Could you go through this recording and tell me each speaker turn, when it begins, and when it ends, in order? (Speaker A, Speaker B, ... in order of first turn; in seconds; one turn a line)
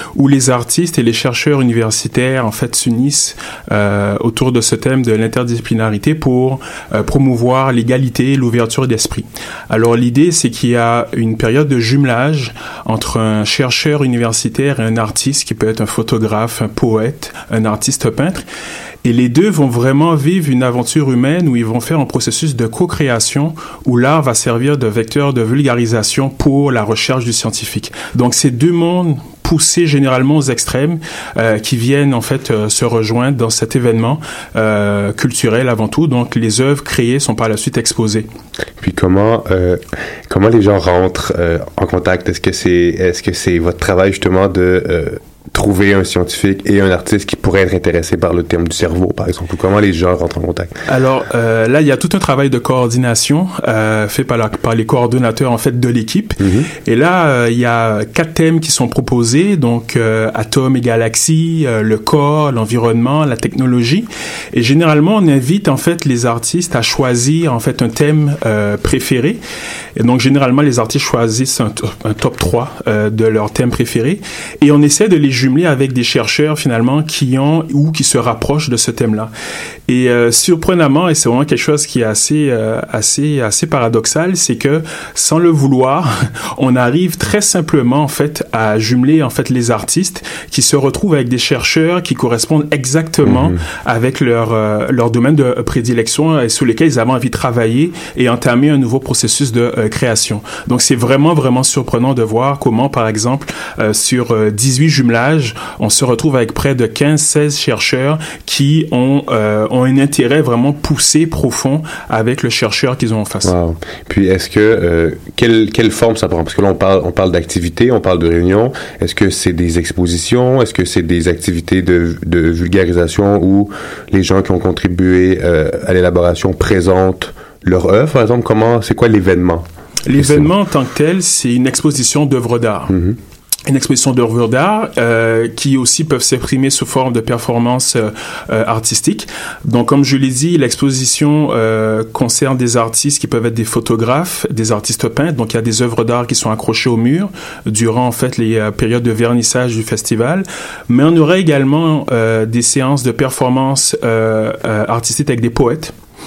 Speaker A: 0.1-18.4
Speaker A: 19.0-38.3
Speaker B: 38.8-50.7
Speaker A: 50.9-69.4
Speaker B: 56.4-56.7
Speaker A: 70.0-79.3
Speaker A: 79.9-113.5
Speaker B: 93.2-93.6
Speaker B: 113.5-130.5
Speaker A: 130.1-132.9
Speaker B: 132.9-133.2
Speaker A: 133.7-155.9